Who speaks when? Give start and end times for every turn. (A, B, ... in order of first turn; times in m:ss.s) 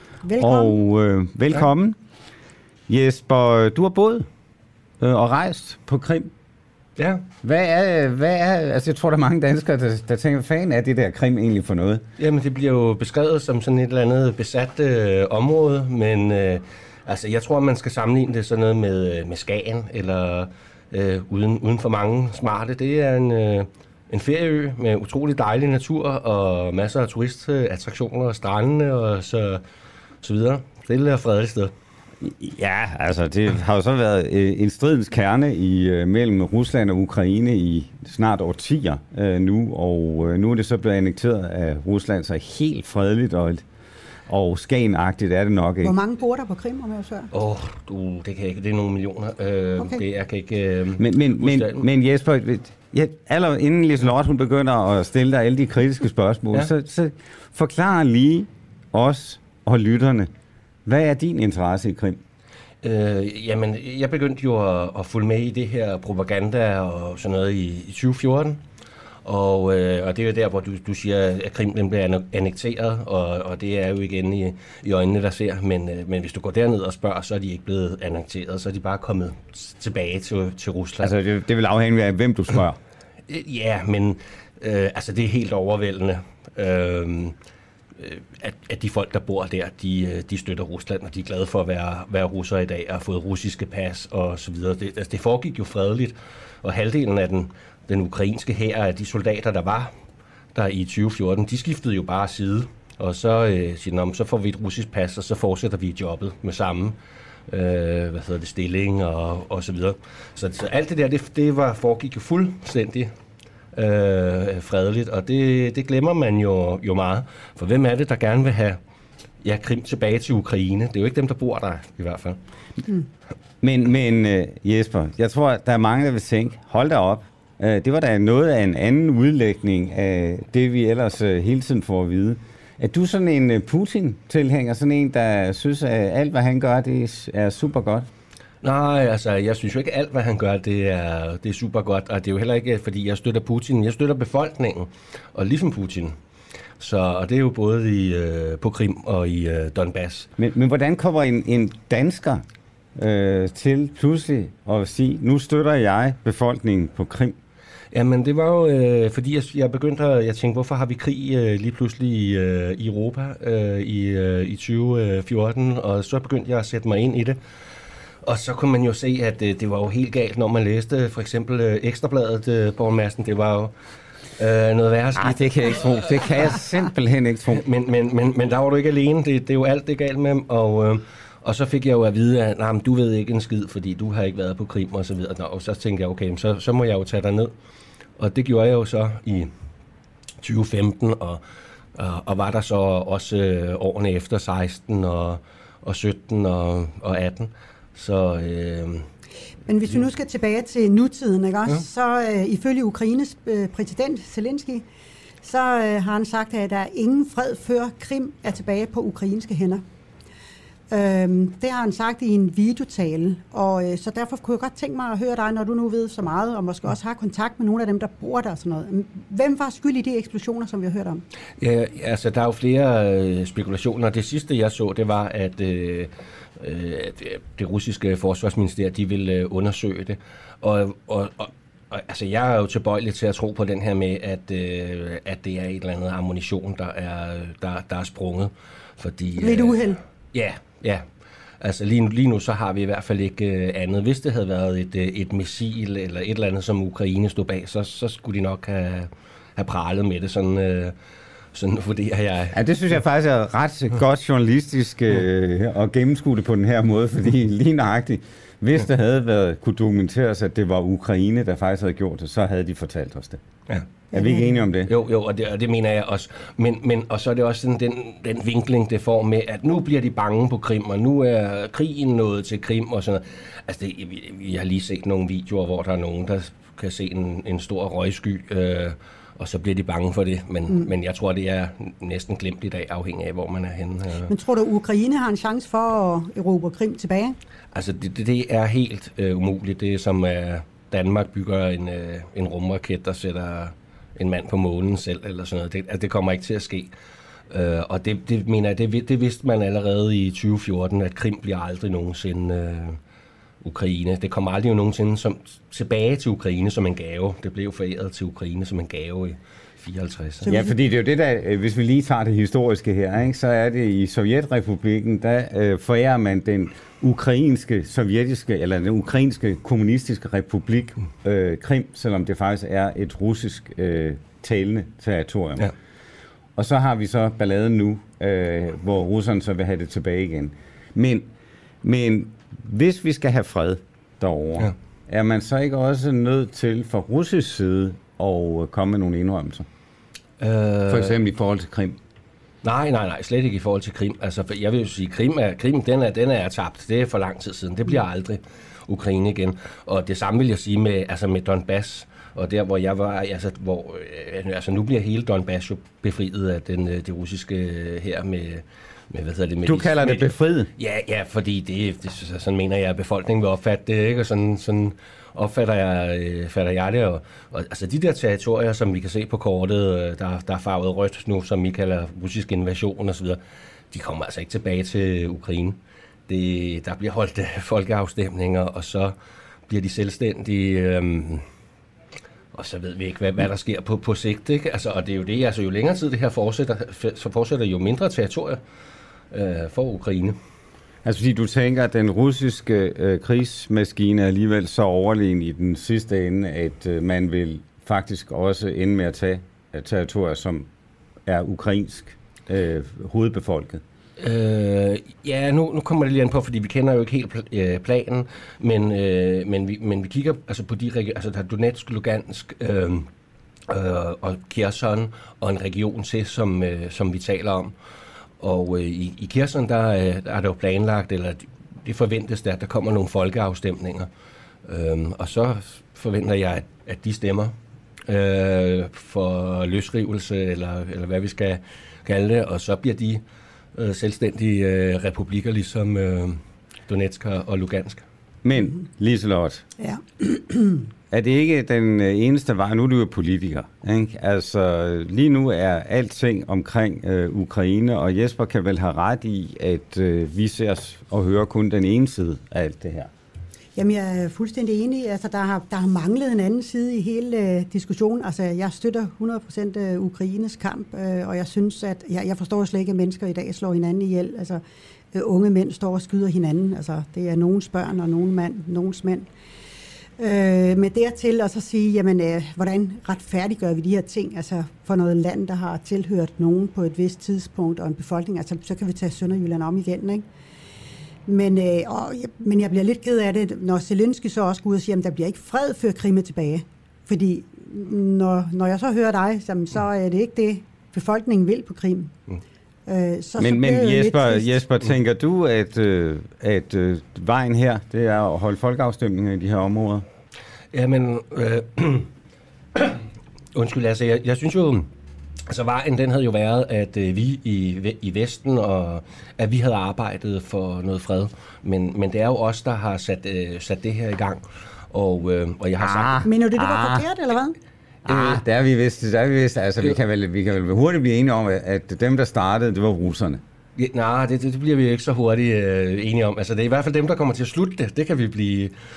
0:00.2-0:00.8 A
0:00.4-0:02.0 B
0:02.9-0:04.3 B
0:05.0-0:06.3 B
0:07.0-0:07.2 C
0:07.4-0:12.0 B
0:12.2-0:29.6 C
0:30.2-0:31.7 C
0:32.2-0:43.6 B
0:44.3-0:46.0 B
0:45.8-0:47.3 A
0:47.3-0:51.8 C
0:51.0-1:00.3 B
1:00.8-1:02.2 B
1:02.8-1:08.6 C
1:09.2-1:21.1 C
1:21.0-1:22.8 B
1:23.3-1:27.4 C
1:28.0-1:39.9 C
1:40.5-1:47.0 C
1:47.5-1:53.1 C
1:53.7-1:58.8 C
1:59.4-2:02.4 C
2:03.6-2:18.1 B
2:18.6-2:26.2 C
2:26.8-2:30.3 C
2:30.4-2:32.4 B
2:33.0-2:37.4 B
2:37.9-2:47.4 C
2:48.2-2:53.7 C
2:54.4-2:56.6 C
2:55.2-2:57.6 B
2:57.5-3:07.5 C
3:08.2-3:09.5 C
3:10.4-3:11.4 C
3:11.9-3:19.0 C
3:19.7-3:24.8 A
3:25.4-3:29.8 A
3:30.9-3:41.2 A
3:41.6-3:59.8 C
3:59.4-4:00.0 A
4:00.3-4:01.1 C
4:01.6-4:11.0 C
4:11.5-4:12.6 C
4:12.5-4:23.4 B
4:24.1-4:24.9 B
4:24.1-4:24.6 A
4:24.8-4:44.3 C
4:44.3-4:47.4 A
4:47.7-4:56.9 C
4:57.5-5:03.0 C
5:03.6-5:10.5 C
5:10.4-5:10.7 A
5:10.5-5:25.7 B
5:26.6-5:31.3 B
5:31.8-5:39.6 B
5:40.4-5:41.2 C
5:40.9-5:42.0 B
5:42.6-6:13.4 C
5:59.6-6:00.7 B
6:13.9-6:19.1 C
6:19.7-6:21.4 C
6:22.5-6:28.6 C
6:29.3-6:30.4 C
6:31.0-6:40.7 B
6:41.2-6:43.8 B
6:44.2-6:53.1 C
6:53.7-6:57.7 C
6:58.4-7:04.1 C
7:04.6-7:07.5 C
7:08.1-7:13.2 C
7:13.7-7:18.0 C
7:18.4-7:19.6 B
7:19.8-7:20.8 A
7:21.1-7:33.1 B
7:33.8-7:44.6 A
7:45.1-7:49.2 A
7:50.2-8:00.2 A
8:01.3-8:12.1 A
8:12.9-8:14.6 A
8:13.4-8:20.0 B
8:20.7-8:22.1 C
8:23.5-8:24.9 C
8:25.5-8:36.2 C
8:35.8-8:37.0 B
8:36.2-8:37.6 A
8:38.0-8:43.4 B
8:38.1-8:38.4 C
8:43.8-8:48.7 C